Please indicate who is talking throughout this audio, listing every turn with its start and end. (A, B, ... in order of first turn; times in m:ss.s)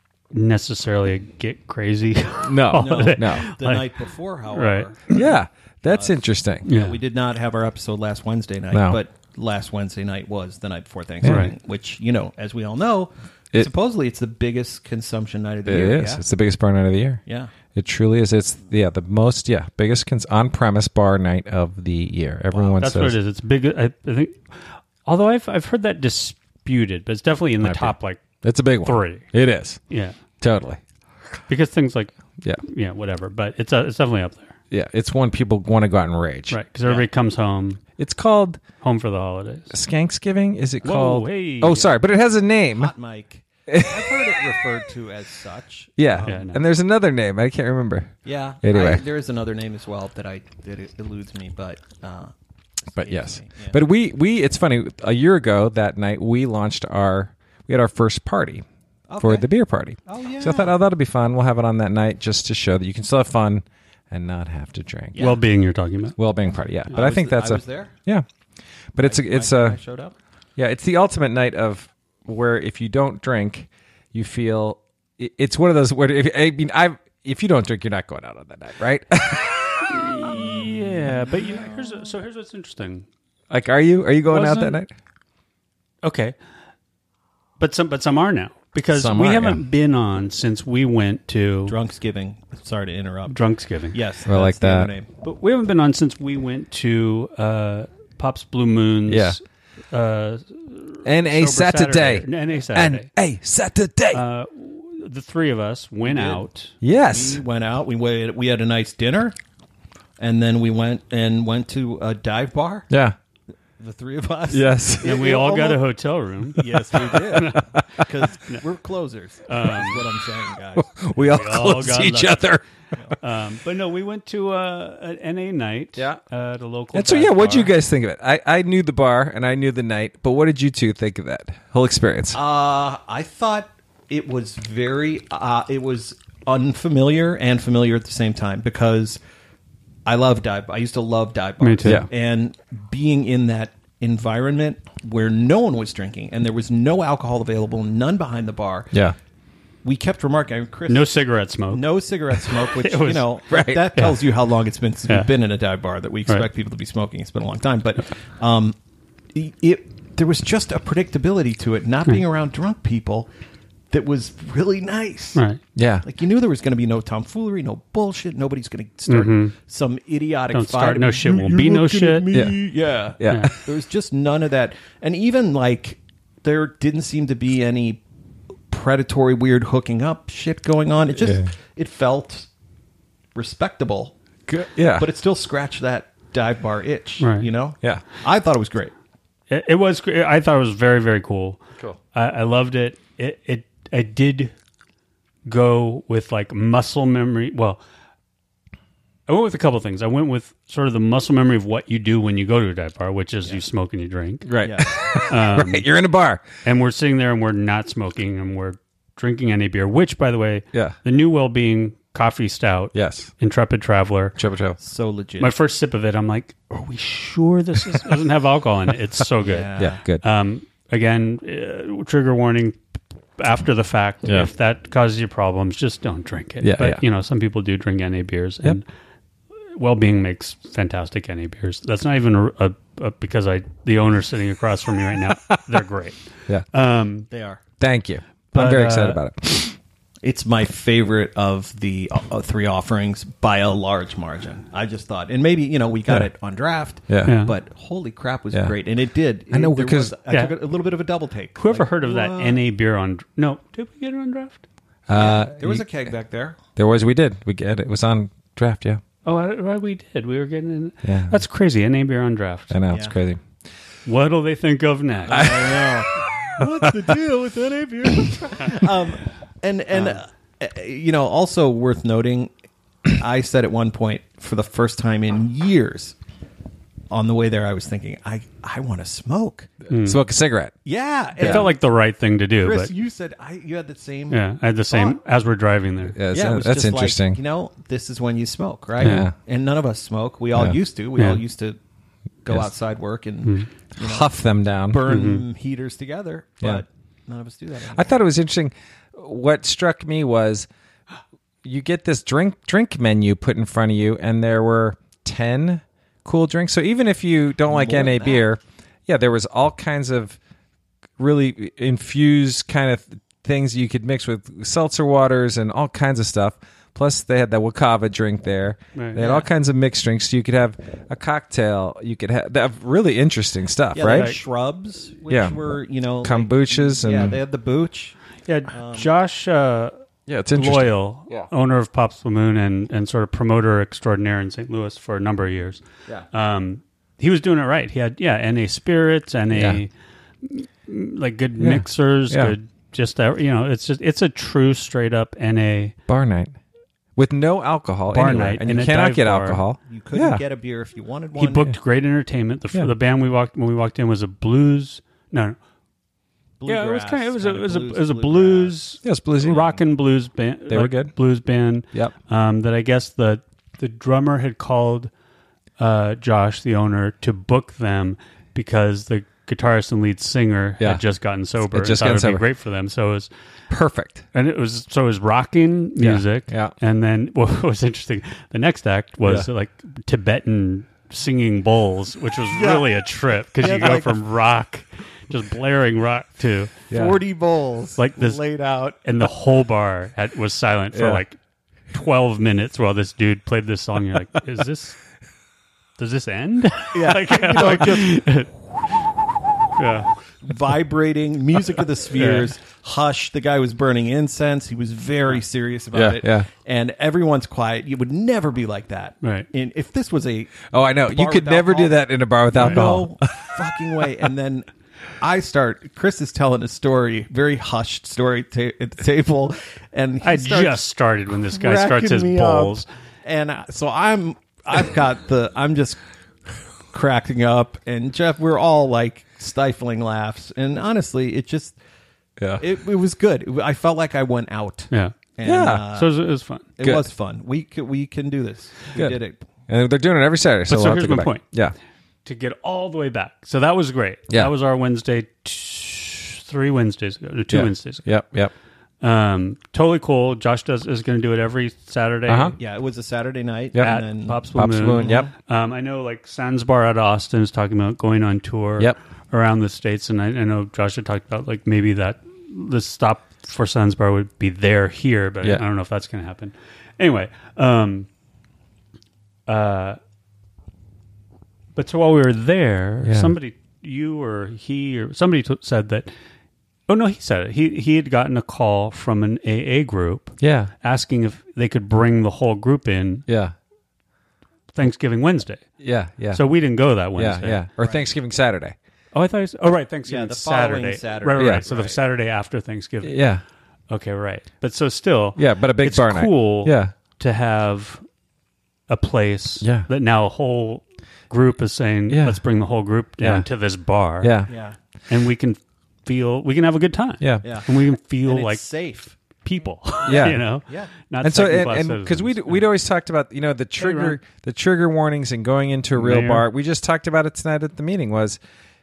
0:00.3-0:03.9 A
0:02.5-0:03.5 B
0:02.7-0:05.4 C
0:04.5-0:04.9 A
0:05.1-0:06.7 B
0:05.9-0:16.2 C
0:06.7-0:07.0 A
0:08.7-0:09.0 B
0:11.2-0:11.5 B
0:11.2-0:11.5 A
0:15.6-0:17.2 B
0:17.3-0:17.5 C
0:17.8-0:23.2 B
0:22.5-0:22.8 C
0:22.8-0:28.2 A
0:27.6-0:29.8 B
0:28.8-0:29.3 A
0:29.9-0:30.2 A
0:30.4-0:30.8 B
0:31.5-0:34.6 A
0:34.7-0:37.0 B
0:36.5-0:37.8 A
0:38.0-0:38.6 B
0:38.8-0:39.7 A
0:39.7-0:42.9 B
0:40.8-0:42.0 A
0:42.8-0:46.4 C
0:43.7-0:44.6 B
0:46.0-0:49.1 B
0:46.2-0:46.6 A
0:48.2-0:52.3 C
0:52.8-0:53.8 C
0:53.0-0:58.6 B
0:59.1-0:59.5 C
0:59.2-1:05.3 B
1:00.1-1:00.7 C
1:05.2-1:06.2 A
1:06.2-1:08.2 B
1:06.9-1:07.9 C
1:08.9-1:09.8 B
1:09.0-1:10.2 C
1:10.6-1:20.1 B
1:19.8-1:23.1 A
1:23.5-1:24.9 B
1:24.3-1:24.8 A
1:26.0-1:26.4 A
1:27.6-1:31.8 A
1:28.9-1:29.6 B
1:31.7-1:33.4 C
1:33.3-1:34.0 A
1:33.9-1:35.1 C
1:34.3-1:34.9 B
1:35.2-1:43.1 A
1:39.1-1:39.4 B
1:41.0-1:44.2 B
1:44.1-1:46.7 A
1:46.0-1:46.4 C
1:46.8-1:47.4 B
1:47.1-1:49.4 C
1:50.2-1:52.9 C
1:52.9-1:53.2 B
1:53.8-1:55.8 C
1:54.5-1:55.2 B
1:55.0-1:57.8 A
1:56.6-2:00.9 C
1:59.5-2:00.0 A
2:00.8-2:03.2 B
2:01.2-2:02.4 A
2:03.2-2:07.8 A
2:06.9-2:12.4 B
2:12.3-2:19.2 C
2:20.1-2:28.9 C
2:21.6-2:22.1 A
2:29.8-2:38.8 C
2:30.9-2:33.3 A
2:33.5-2:33.9 B
2:33.9-2:34.2 A
2:39.3-2:43.3 C
2:43.9-2:45.4 C
2:45.4-2:45.6 A
2:45.8-2:46.0 B
2:46.0-2:58.0 C
2:49.1-2:49.5 A
2:50.5-2:52.3 A
2:52.3-2:52.6 B
2:53.2-2:53.6 B
2:53.3-2:53.5 A
2:58.7-3:02.5 C
3:01.2-3:01.5 B
3:03.4-3:04.2 C
3:04.5-3:05.1 B
3:05.0-3:08.9 C
3:07.2-3:07.5 A
3:09.5-3:11.6 A
3:12.1-3:14.5 A
3:15.5-3:17.8 A
3:19.3-3:24.5 A
3:24.4-3:26.4 B
3:24.6-3:24.9 C
3:25.3-3:25.9 A
3:26.6-3:34.4 A
3:32.9-3:33.3 B
3:34.4-3:34.8 B
3:34.8-3:35.5 C
3:35.4-3:42.8 A
3:39.4-3:40.0 C
3:39.8-3:40.2 B
3:43.4-3:48.9 A
3:46.6-3:47.0 B
3:49.7-3:57.3 A
3:55.3-3:55.8 B
3:57.3-3:57.6 C
3:57.8-3:59.8 B
3:58.5-3:59.2 A
4:00.2-4:12.6 C
4:07.1-4:07.3 B
4:07.2-4:07.5 A
4:09.5-4:10.2 B
4:10.3-4:10.6 A
4:11.6-4:14.6 A
4:15.1-4:15.9 B
4:15.1-4:16.6 C
4:16.8-4:19.0 B
4:19.2-4:22.8 A
4:21.0-4:21.4 B
4:22.7-4:23.4 B
4:22.9-4:23.2 C
4:24.1-4:25.7 A
4:25.3-4:32.5 C
4:25.3-4:25.9 B
4:26.6-4:27.1 B
4:33.1-4:36.2 C
4:37.1-4:39.7 C
4:39.9-4:40.2 A
4:40.0-4:40.8 B
4:40.8-4:41.7 C
4:41.4-4:41.7 B
4:41.4-4:42.9 A
4:42.6-4:45.2 C
4:44.3-4:46.2 A
4:46.1-4:47.4 B
4:46.3-4:51.8 C
4:49.0-4:49.4 B
4:49.0-4:49.3 A
4:50.5-4:50.8 B
4:51.2-4:51.4 A
4:52.4-4:54.3 C
4:52.5-4:52.7 B
4:53.4-4:53.7 A
4:54.0-4:55.1 B
4:54.9-4:58.2 C
4:55.1-4:55.4 A
4:57.9-5:00.7 B
5:01.6-5:10.4 B
5:07.7-5:08.4 C
5:11.2-5:24.4 B
5:19.0-5:19.2 A
5:19.2-5:19.5 C
5:23.9-5:28.2 C
5:24.1-5:24.4 A
5:25.3-5:25.6 B
5:26.2-5:27.4 B
5:28.5-5:30.0 A
5:28.7-5:29.1 C
5:30.3-5:31.5 B
5:30.5-5:39.9 A
5:39.5-5:39.8 B
5:40.4-5:46.0 A
5:41.6-5:42.6 B
5:46.1-5:46.6 B
5:47.2-5:50.4 B
5:48.1-5:49.6 A
5:49.9-5:51.7 C
5:51.4-5:55.6 A
5:56.6-5:58.8 C
5:56.7-6:05.1 A
5:59.0-5:59.8 B
6:00.7-6:01.2 B
6:05.8-6:13.3 A
6:10.8-6:11.0 B
6:11.6-6:12.4 B
6:13.7-6:14.2 B
6:14.3-6:26.8 A
6:16.0-6:16.7 B
6:19.2-6:19.5 B
6:22.5-6:23.0 C
6:23.6-6:24.2 C
6:26.9-6:27.2 B
6:26.9-6:29.0 C
6:28.0-6:28.4 A
6:29.0-6:31.4 A
6:30.9-6:31.2 B
6:31.9-6:35.0 A
6:36.0-6:39.1 A
6:36.9-6:38.2 C
6:39.8-6:40.2 A
6:40.4-6:52.0 C
6:42.1-6:42.5 A
6:45.9-6:46.5 B
6:49.2-6:49.5 A
6:50.7-6:54.0 B
6:52.5-6:54.7 C
6:52.6-6:52.8 A
6:55.2-7:00.9 C
7:00.2-7:02.9 A
7:01.5-7:06.0 C
7:06.9-7:11.8 C
7:12.4-7:12.6 B
7:12.6-7:16.1 C
7:15.4-7:15.9 B
7:15.9-7:16.7 A
7:16.8-7:19.4 C
7:16.8-7:17.1 B
7:19.0-7:21.7 B
7:20.7-7:21.4 A
7:22.2-7:28.1 A
7:27.5-7:28.5 B
7:29.0-7:32.6 A
7:32.3-7:32.6 B
7:32.6-7:35.3 C
7:33.7-7:34.0 B
7:33.8-7:48.1 A
7:34.5-7:35.3 B
7:49.5-7:50.0 A
7:51.8-7:56.1 A
7:53.0-7:53.3 B
7:56.9-8:03.3 A
8:00.4-8:00.7 B
8:03.3-8:03.6 B
8:04.7-8:05.6 A
8:05.8-8:06.5 B
8:06.3-8:07.6 A
8:07.2-8:08.8 B
8:07.8-8:08.1 C
8:09.1-8:13.2 A
8:10.1-8:12.0 C
8:11.4-8:11.6 B
8:13.0-8:13.4 B
8:13.9-8:18.0 A
8:15.4-8:16.9 B
8:18.9-8:24.4 A
8:19.6-8:19.9 B
8:22.1-8:22.4 B
8:23.2-8:23.5 B
8:24.2-8:24.5 B
8:24.5-8:24.8 C
8:25.1-8:28.6 A
8:27.2-8:27.5 B
8:27.4-8:27.7 C
8:28.2-8:29.1 C
8:29.4-8:32.6 A
8:30.0-8:30.9 C
8:30.1-8:30.4 B
8:31.2-8:38.4 B
8:33.8-8:34.2 A
8:36.0-8:36.4 A